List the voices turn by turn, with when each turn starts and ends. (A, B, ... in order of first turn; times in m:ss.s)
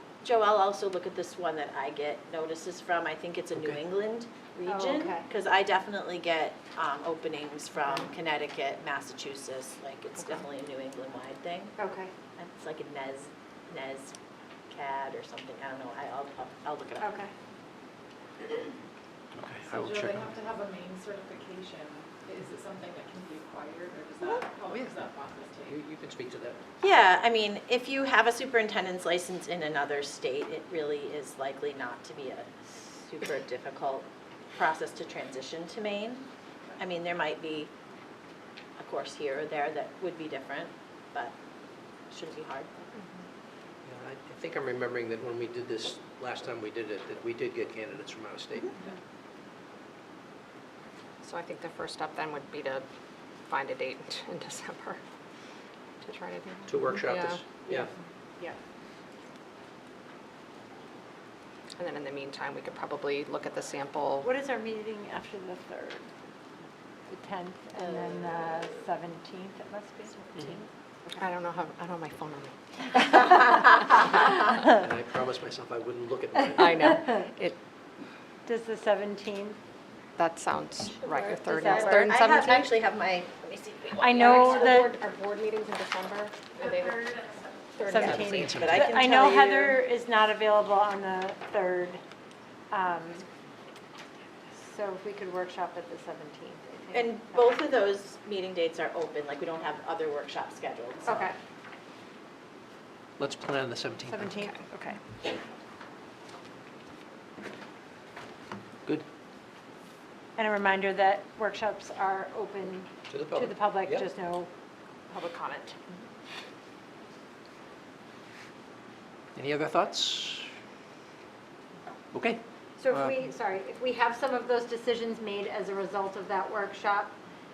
0:00.2-0:11.8 A
0:03.6-0:03.8 B
0:04.7-0:05.2 C
0:11.8-0:12.1 C
0:12.4-0:14.1 A
0:14.7-0:17.2 A
0:17.0-0:17.3 C
0:19.3-0:20.3 B
0:19.7-0:25.7 D
0:24.6-0:25.0 B
0:25.6-0:26.6 B
0:26.8-0:36.3 A
0:36.8-0:37.7 A
0:38.8-0:41.3 A
0:42.1-0:42.9 A
0:43.8-0:48.8 B
0:51.2-0:52.8 E
0:53.4-0:55.0 E
0:56.0-0:57.5 E
0:56.7-0:57.9 B
1:01.8-1:04.3 E
1:04.2-1:06.1 C
1:07.1-1:11.1 C
1:11.2-1:14.0 E
1:14.7-1:17.0 B
1:16.6-1:17.6 E
1:18.4-1:19.6 C
1:20.2-1:22.7 E
1:21.1-1:22.0 C
1:21.6-1:24.5 A
1:24.0-1:24.9 C
1:24.2-1:28.6 E
1:27.9-1:32.0 C
1:28.0-1:28.9 B
1:28.5-1:29.8 A
1:32.7-1:33.2 C
1:34.5-1:37.6 C
1:36.9-1:41.3 A
1:41.0-1:41.4 C
1:43.2-1:44.4 B
1:44.0-1:45.0 C
1:50.4-1:54.5 C
1:53.1-1:54.1 B
1:55.1-1:55.8 C
1:59.3-2:00.5 B
2:02.1-2:03.2 B
2:02.8-2:07.1 C